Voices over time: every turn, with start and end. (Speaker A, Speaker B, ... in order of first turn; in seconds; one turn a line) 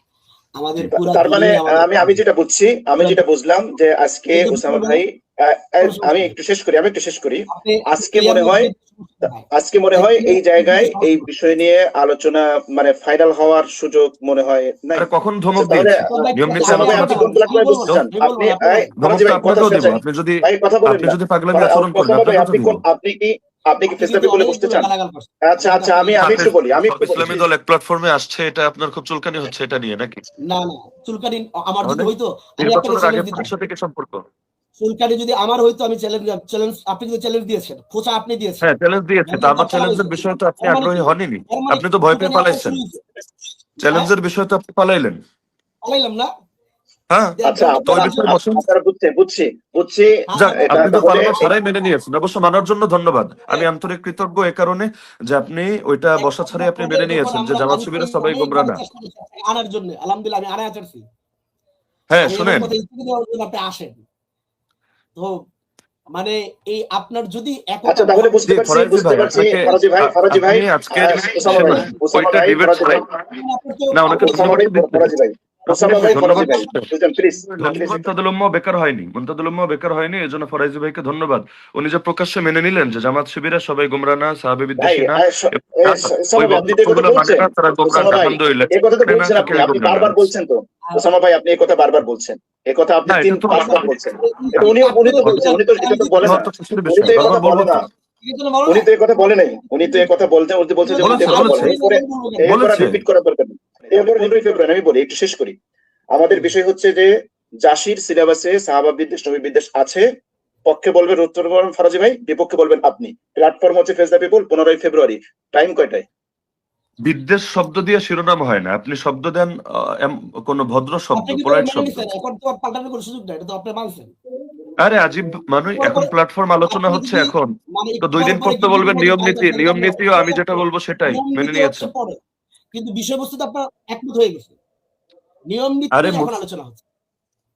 Speaker A: 0.6-2.2
Speaker B: 0.9-8.7
Speaker A: 3.0-3.2
Speaker A: 4.3-5.0
Speaker A: 5.8-6.3
Speaker A: 7.5-11.3
Speaker B: 9.2-24.9
Speaker C: 14.9-17.3
Speaker A: 16.1-18.9
Speaker C: 19.0-22.8
Speaker A: 23.9-27.2
Speaker B: 25.4-27.5
Speaker C: 26.2-30.2
Speaker A: 30.5-33.5
Speaker C: 31.8-34.2
Speaker A: 34.8-38.7
Speaker C: 38.6-42.8
Speaker A: 39.3-43.0
Speaker C: 43.8-45.2
Speaker A: 43.9-44.1
Speaker A: 45.8-46.3
Speaker C: 47.1-47.4
Speaker A: 47.4-48.4
Speaker B: 47.4-51.5
Speaker C: 47.9-48.6
Speaker A: 50.3-51.5
Speaker C: 50.4-58.8
Speaker A: 56.2-61.0
Speaker C: 62.1-62.7
Speaker A: 62.2-64.0
Speaker A: 65.2-65.5
Speaker A: 66.1-68.5
Speaker B: 67.9-73.0
Speaker C: 68.5-73.0
Speaker A: 71.5-72.0
Speaker A: 73.3-74.5
Speaker C: 73.9-75.2
Speaker B: 74.1-78.1
Speaker C: 75.7-76.9
Speaker A: 75.9-76.7
Speaker C: 77.6-90.3
Speaker B: 84.8-97.9
Speaker C: 93.1-93.9
Speaker A: 93.5-96.5
Speaker C: 96.2-97.8
Speaker A: 98.2-98.9
Speaker B: 98.7-105.5
Speaker A: 99.7-100.2
Speaker A: 100.8-102.5
Speaker C: 101.0-101.8
Speaker C: 102.5-103.0
Speaker B: 106.1-107.1
Speaker B: 107.6-110.0
Speaker B: 110.7-116.0
Speaker C: 117.0-122.1
Speaker A: 121.2-124.1
Speaker C: 124.8-127.5
Speaker A: 125.8-126.1
Speaker A: 126.7-132.2
Speaker C: 128.0-131.9
Speaker A: 132.7-134.6
Speaker A: 135.5-136.8
Speaker C: 135.9-136.3